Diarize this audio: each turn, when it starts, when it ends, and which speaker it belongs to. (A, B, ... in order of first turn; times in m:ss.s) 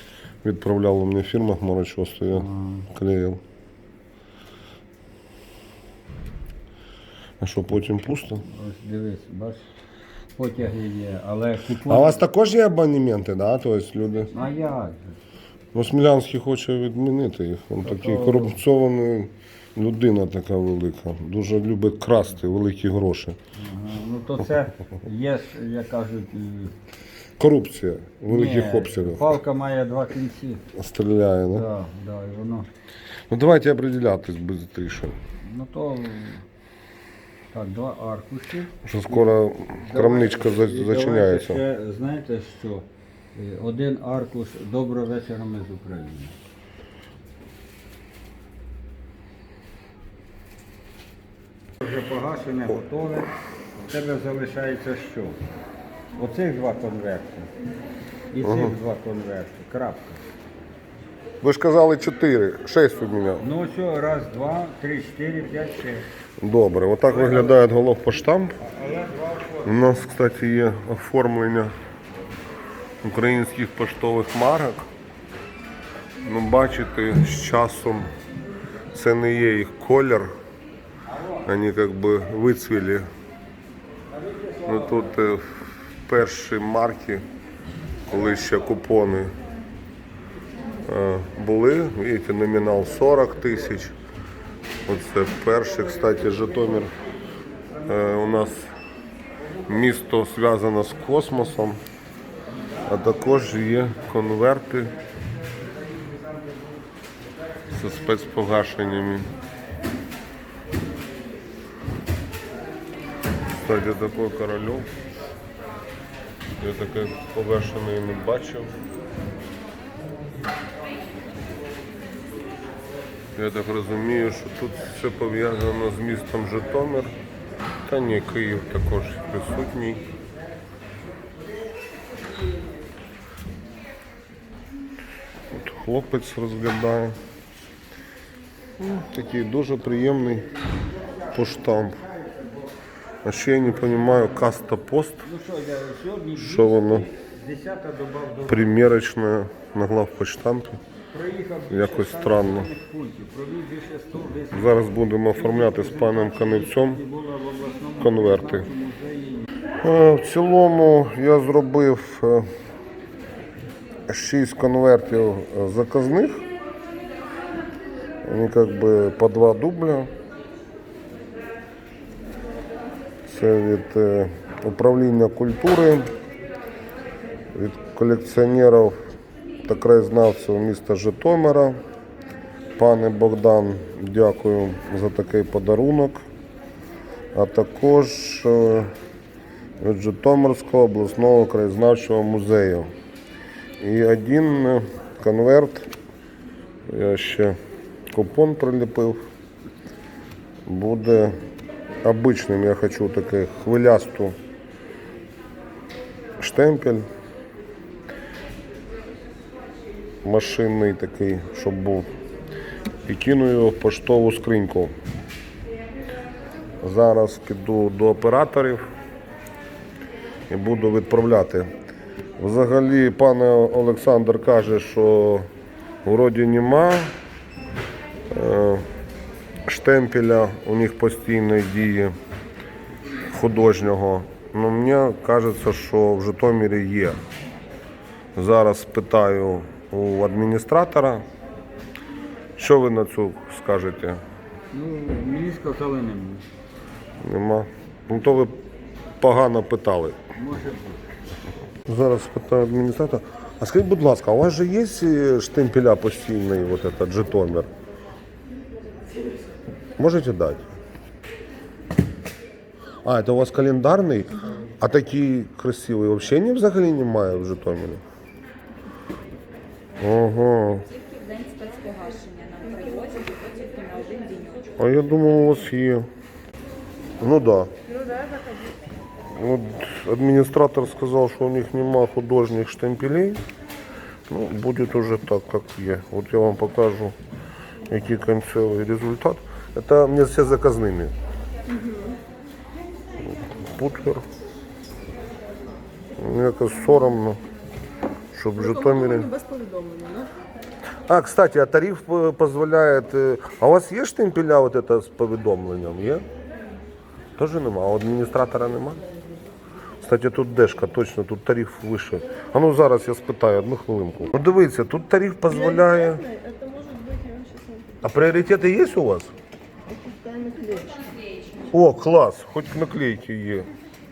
0:00.4-0:03.4 A
0:02.3-0:02.9 B
0:07.4-0:08.5 A
0:08.4-0:09.6 B
0:10.4-0:12.2 B
0:11.8-0:14.3 A
0:14.3-0:15.2 B
0:15.7-0:23.4 A
0:17.8-0:18.6 B
0:23.5-0:26.7 B
0:27.4-0:29.4 A
0:28.2-0:30.7 B
0:30.7-0:31.7 A
0:31.5-0:32.7 B
0:33.3-0:35.2 A
0:35.4-0:36.4 B
0:37.5-0:46.3 B
0:38.8-0:41.6 A
0:51.8-0:55.4 B
0:56.2-0:57.5 B
0:58.3-1:00.2 B
0:58.4-0:58.8 A
1:01.4-1:03.4 A
1:03.4-1:06.1 B
1:06.4-1:08.6 A
1:07.1-1:07.5 B
1:08.6-1:09.7 B
1:09.6-1:11.7 A
1:13.0-1:14.9 A
1:16.2-1:18.1 A
1:18.9-1:20.3 A
1:21.1-1:21.4 B
1:21.4-1:23.1 A
1:24.2-1:24.5 C
1:24.2-1:25.1 B
1:24.6-1:27.2 A
1:28.1-1:29.4 A
1:30.8-1:34.0 A
1:34.8-1:37.0 A
1:37.8-1:38.7 A
1:39.6-1:41.8 A
1:42.8-1:45.0 A
1:47.7-1:49.3 A
1:53.5-1:54.9 A
1:56.6-1:58.7 A
2:03.3-2:07.2 A
2:07.8-2:10.1 A
2:15.5-2:17.2 A
2:18.8-2:20.6 A
2:21.3-2:22.0 A
2:22.2-2:22.6 C
2:23.2-2:25.3 A
2:25.2-2:28.7 B
2:26.4-2:27.1 A
2:28.5-2:30.8 A
2:31.1-2:39.4 B
2:31.7-2:32.7 A
2:34.5-2:37.0 A
2:38.0-2:38.7 A
2:39.8-2:42.5 A
2:44.1-2:46.4 A
2:48.2-2:50.1 A
2:53.2-2:56.1 A
2:57.5-2:59.0 A
2:59.6-3:01.8 A
3:02.7-3:06.2 A
3:07.3-3:08.9 A
3:09.8-3:12.9 A
3:13.8-3:15.9 A
3:16.8-3:17.6 A
3:18.1-3:19.2 A
3:20.6-3:21.3 A
3:22.0-3:24.4 A
3:26.4-3:27.1 A
3:30.2-3:32.1 A
3:33.0-3:34.9 A
3:36.8-3:38.8 A
3:40.5-3:41.7 A
3:42.4-3:45.5 A
3:46.0-3:47.1 A
3:48.3-3:48.8 A
3:49.6-3:52.1 A
3:53.3-3:57.2 A
3:58.3-4:01.2 A
4:02.6-4:04.2 A
4:04.7-4:06.4 B
4:07.2-4:08.6 A
4:09.2-4:10.2 A
4:10.3-4:11.1 B
4:11.8-4:17.7 A
4:20.0-4:20.6 A
4:23.0-4:28.0 A
4:30.0-4:30.9 A
4:31.2-4:34.6 D
4:34.8-4:36.1 A
4:37.2-4:37.7 A
4:39.3-4:43.4 A
4:44.3-4:47.2 A
4:47.9-4:51.1 A
4:51.7-4:52.2 C
4:53.2-4:54.2 A
4:56.2-4:57.4 A
4:58.3-4:59.4 A
4:59.3-5:00.3 C
5:01.0-5:06.2 A
5:07.4-5:09.0 A
5:10.0-5:16.3 A
5:16.3-5:17.8 C
5:18.0-5:19.3 A
5:20.0-5:21.0 C
5:21.7-5:23.7 A